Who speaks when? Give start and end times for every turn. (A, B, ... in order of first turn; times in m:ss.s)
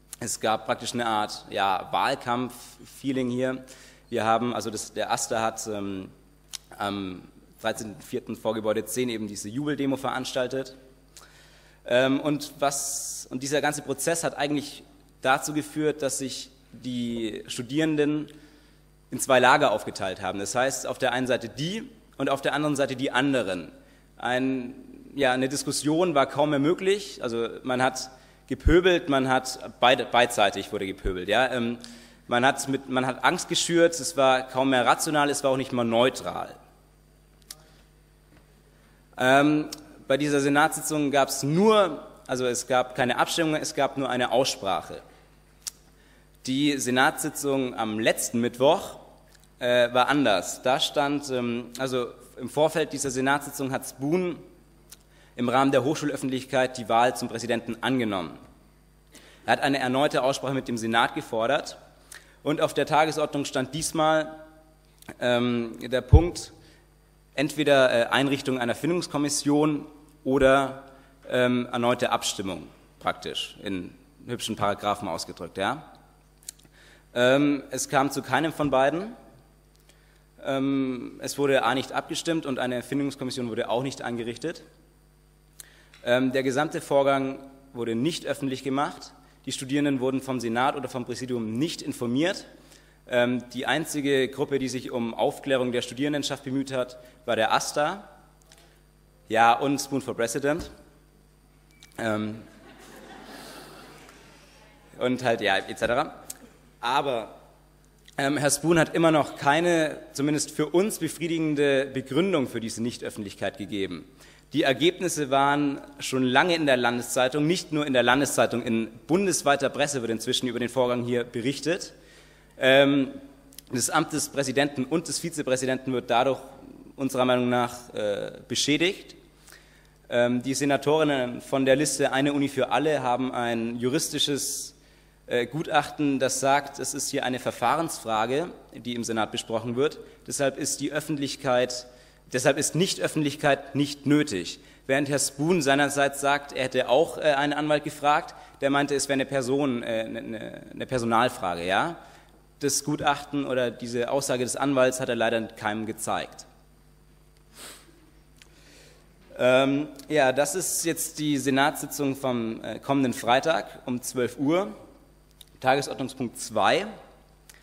0:00.2-0:06.1 A
0:06.8-0:10.7 A
0:11.8-0:18.3 A
0:19.1-0:36.6 A
0:39.2-0:45.0 A
0:46.4-0:49.0 A
0:49.6-0:54.4 A
0:55.4-0:58.4 A
0:59.4-1:01.8 A
1:02.4-1:04.4 A
1:05.2-1:06.5 A
1:07.4-1:15.8 A
1:17.1-1:19.1 A
1:20.4-1:24.6 A
1:26.0-1:32.4 A
1:33.1-1:38.1 A
1:39.3-1:40.7 A
1:42.0-1:42.4 A
1:45.0-1:46.1 A
1:46.8-1:47.3 A
1:48.2-2:01.9 A
2:02.6-2:03.2 A
2:03.7-2:09.2 A
2:10.1-2:14.8 A
2:15.3-2:32.0 A
2:32.6-2:36.4 A
2:39.3-2:44.7 A
2:45.6-2:46.9 A